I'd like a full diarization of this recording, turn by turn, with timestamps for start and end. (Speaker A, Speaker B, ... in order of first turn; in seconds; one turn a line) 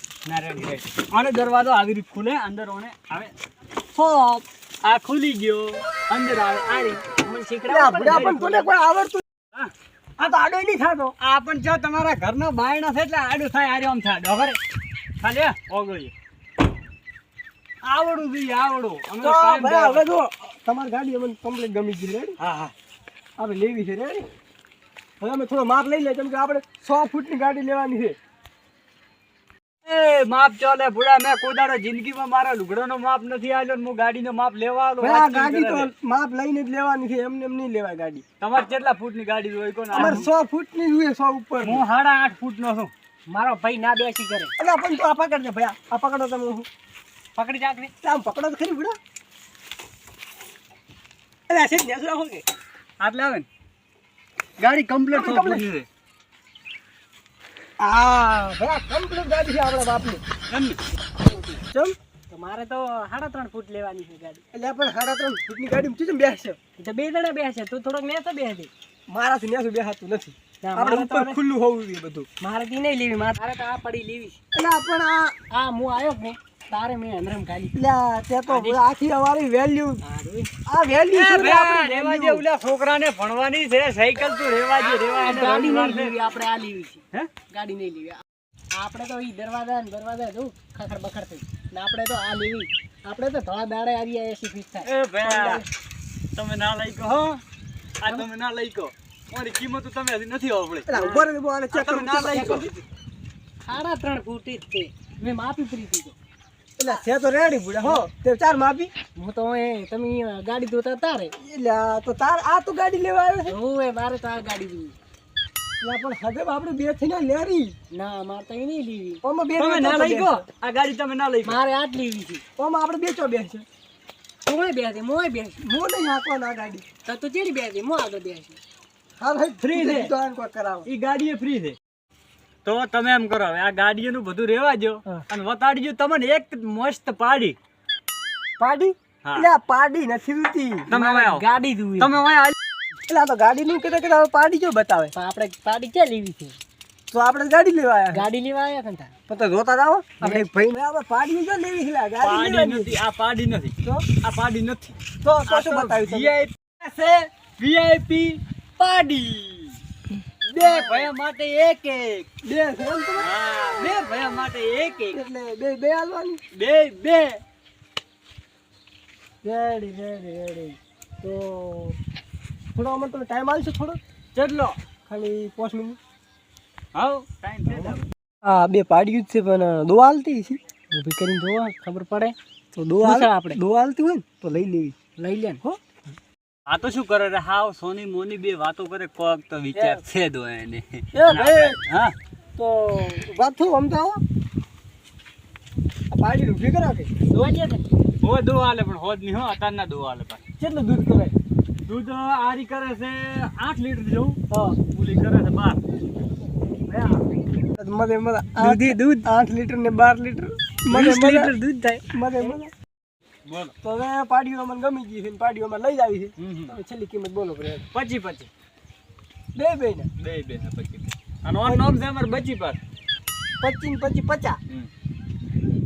Speaker A: 0.2-3.3
Speaker A: 3.9-7.0
Speaker B: 7.0-8.6
Speaker C: 7.7-9.2
Speaker C: 10.2-11.1
Speaker A: 11.2-14.6
Speaker A: 15.2-16.1
Speaker A: 17.8-20.1
Speaker C: 19.2-22.4
Speaker A: 22.4-22.7
Speaker C: 23.4-24.2
Speaker C: 25.2-28.2
Speaker A: 29.8-35.9
Speaker C: 35.0-38.2
Speaker A: 38.4-40.3
Speaker C: 39.9-41.8
Speaker A: 41.6-42.9
Speaker B: 43.3-44.5
Speaker C: 44.6-46.7
Speaker B: 47.4-47.9
Speaker C: 48.0-49.0
Speaker C: 51.5-52.4
Speaker A: 53.0-53.5
Speaker A: 54.6-55.9
Speaker C: 55.1-55.6
Speaker C: 57.8-60.2
Speaker A: 60.5-60.8
Speaker B: 61.2-61.6
Speaker C: 61.7-62.0
Speaker B: 62.3-64.4
Speaker C: 64.5-66.6
Speaker B: 66.8-68.7
Speaker C: 69.1-72.3
Speaker B: 70.6-71.4
Speaker B: 72.4-74.4
Speaker C: 74.5-75.3
Speaker B: 75.5-77.7
Speaker C: 77.7-80.0
Speaker B: 78.5-78.8
Speaker B: 80.0-80.5
Speaker C: 80.6-82.4
Speaker A: 81.1-86.1
Speaker B: 84.8-88.2
Speaker B: 88.7-95.6
Speaker A: 94.8-95.6
Speaker C: 95.2-95.6
Speaker A: 96.3-97.4
Speaker A: 98.0-100.9
Speaker C: 100.9-102.7
Speaker B: 100.9-101.3
Speaker A: 101.7-102.8
Speaker B: 103.7-106.1
Speaker C: 106.8-108.9
Speaker B: 109.2-111.3
Speaker C: 111.4-113.5
Speaker B: 113.5-115.0
Speaker C: 115.8-117.8
Speaker B: 117.9-119.2
Speaker C: 119.2-120.4
Speaker A: 119.6-121.6
Speaker B: 121.4-122.4
Speaker C: 122.6-123.6
Speaker B: 124.5-125.6
Speaker C: 125.6-126.8
Speaker B: 127.0-128.6
Speaker C: 129.2-130.9
Speaker A: 129.6-130.1
Speaker A: 130.8-131.8
Speaker A: 132.6-137.6
Speaker C: 138.6-140.9
Speaker A: 140.9-141.4
Speaker B: 140.9-142.2
Speaker A: 142.0-142.5
Speaker C: 143.1-145.1
Speaker B: 145.1-146.6
Speaker C: 147.1-148.2
Speaker B: 148.1-149.1
Speaker C: 149.3-153.0
Speaker B: 150.2-150.5
Speaker A: 152.2-159.8
Speaker C: 155.2-156.4
Speaker A: 160.4-162.3
Speaker C: 160.6-161.1
Speaker C: 162.4-163.3
Speaker A: 163.2-165.2
Speaker C: 165.1-166.4
Speaker A: 166.5-167.4
Speaker C: 169.4-172.0
Speaker C: 172.8-174.0
Speaker A: 174.3-174.8
Speaker C: 175.1-176.0
Speaker A: 176.9-178.1
Speaker C: 177.8-180.6
Speaker B: 180.9-182.3
Speaker C: 182.7-184.9
Speaker B: 183.0-183.6
Speaker B: 185.2-185.6
Speaker A: 186.7-192.1
Speaker C: 191.1-191.8
Speaker C: 192.6-194.2
Speaker C: 196.1-197.5
Speaker B: 197.3-197.9
Speaker A: 198.2-200.4
Speaker C: 200.6-201.3
Speaker A: 201.9-205.8
Speaker C: 204.5-204.8
Speaker A: 206.9-207.2
Speaker C: 207.8-211.5
Speaker B: 208.6-209.3
Speaker B: 210.9-212.6
Speaker C: 212.1-212.7
Speaker A: 213.4-213.7
Speaker C: 213.8-217.9
Speaker A: 216.4-216.8
Speaker A: 217.9-218.5
Speaker C: 219.5-220.1
Speaker A: 220.2-222.8
Speaker C: 223.6-224.6